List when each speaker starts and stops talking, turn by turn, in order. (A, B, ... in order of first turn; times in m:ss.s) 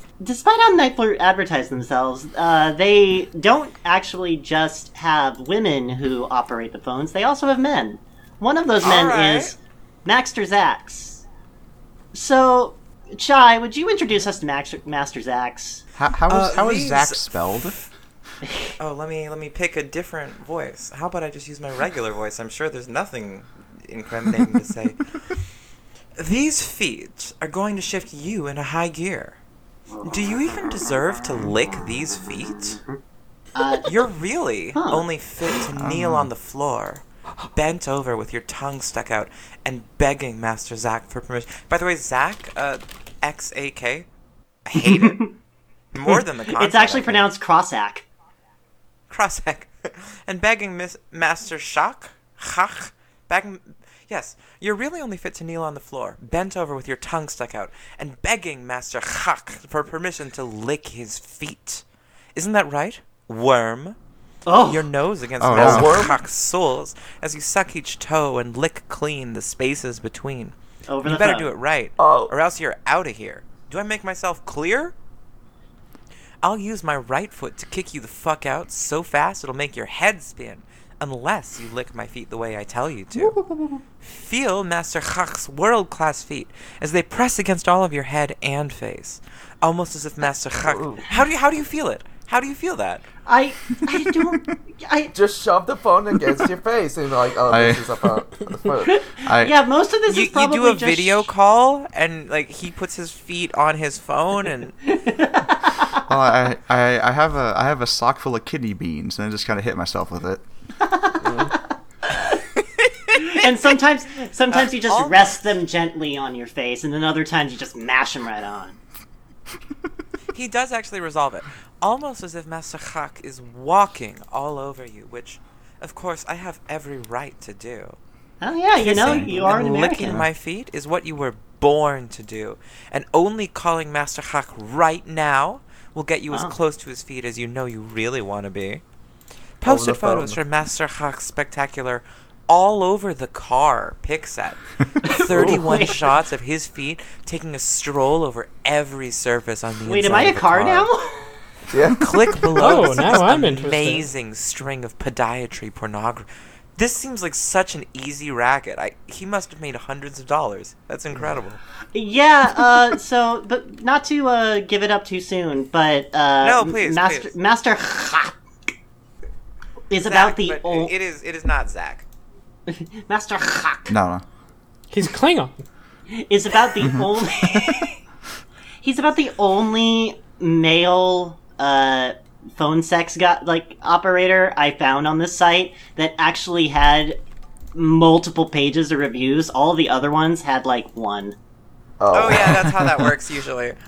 0:00.2-0:11.2 A
0:08.8-0:09.5 B
0:12.1-0:15.8 A
0:16.0-0:17.8 C
0:16.3-0:17.3 B
0:18.8-0:25.4 B
0:26.2-0:29.4 B
0:29.9-0:30.9 A
0:30.0-0:32.8 B
0:32.6-0:33.0 A
0:33.5-0:33.9 A
0:33.8-0:37.0 B
0:34.7-0:35.0 A
0:35.7-0:36.3 C
0:37.5-0:44.1 B
0:44.6-0:45.2 B
0:44.8-0:45.3 A
0:45.9-0:47.2 B
0:46.1-0:48.0 A
0:49.1-1:01.8 B
1:02.3-1:04.0 B
1:04.5-1:04.9 A
1:04.6-1:14.9 B
1:05.4-1:06.1 C
1:05.5-1:06.2 D
1:10.9-1:11.5 A
1:12.0-1:12.3 D
1:16.4-1:23.4 B
1:24.0-1:33.1 B
1:30.6-1:31.0 D
1:33.2-1:35.1 A
1:35.1-1:38.9 D
1:37.5-1:37.9 C
1:38.8-1:41.3 A
1:39.2-1:39.6 C
1:40.1-1:44.7 B
1:44.8-1:46.0 A
1:46.0-1:50.4 C
1:50.8-1:51.6 A
1:51.2-1:51.5 D
1:53.1-1:58.8 A
1:54.5-1:55.4 B
2:00.3-2:08.0 B
2:08.4-2:10.2 A
2:08.8-2:18.8 B
2:09.0-2:09.5 C
2:19.6-2:30.9 B
2:19.6-2:20.4 D
2:25.0-2:26.0 A
2:25.3-2:25.6 D
2:29.9-2:31.4 A
2:31.7-2:32.4 D
2:32.0-2:41.6 B
2:32.6-2:34.0 E
2:41.9-2:48.3 A
2:46.4-2:47.3 B
2:49.9-2:50.9 A
2:50.0-2:52.0 B
2:52.7-2:54.0 A
2:53.9-2:54.2 C
2:54.9-2:55.6 E
2:56.1-2:58.0 A
2:56.8-2:57.9 C
2:58.8-3:07.2 A
3:07.7-3:11.4 A
3:12.0-3:12.7 D
3:12.1-3:13.8 B
3:12.4-3:13.1 C